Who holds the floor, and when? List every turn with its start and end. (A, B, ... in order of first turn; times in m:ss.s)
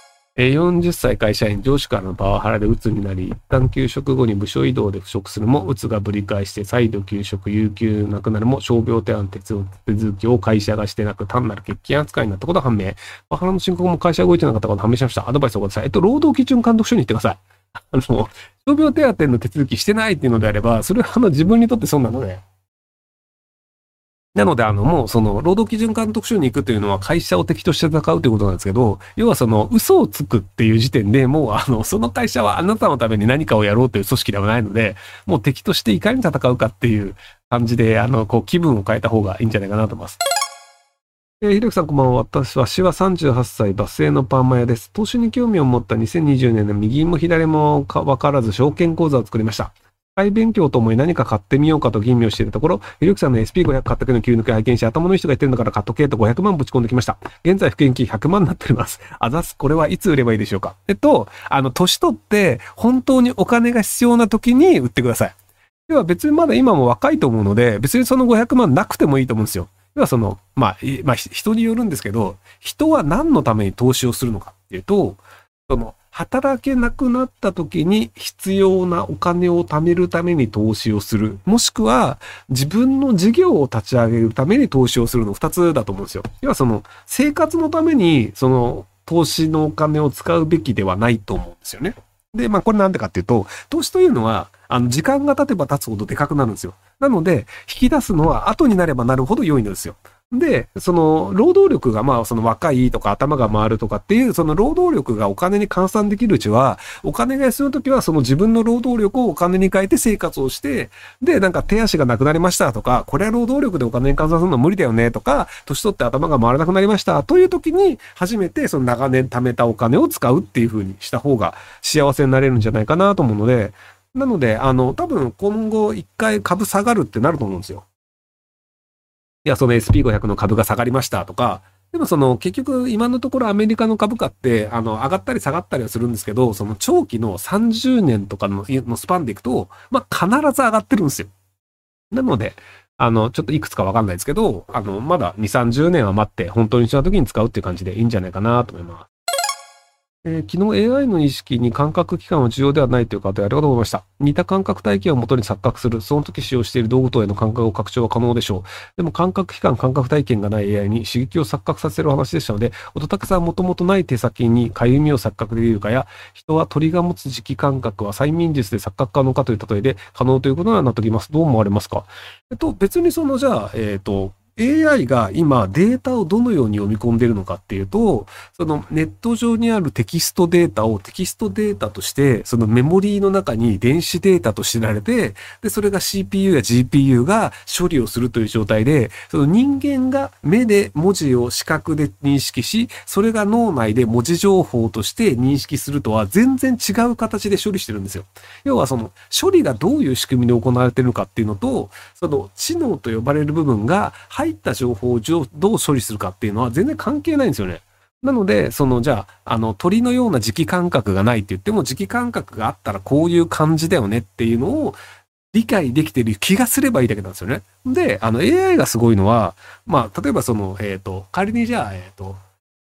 0:00.4-0:22.4 A
0:24.3-0:40.2 A
0:41.4-1:05.4 A
1:05.9-2:07.8 A
2:09.4-2:21.3 A
2:22.1-2:29.1 A
2:30.2-3:35.0 A
3:35.5-3:42.4 A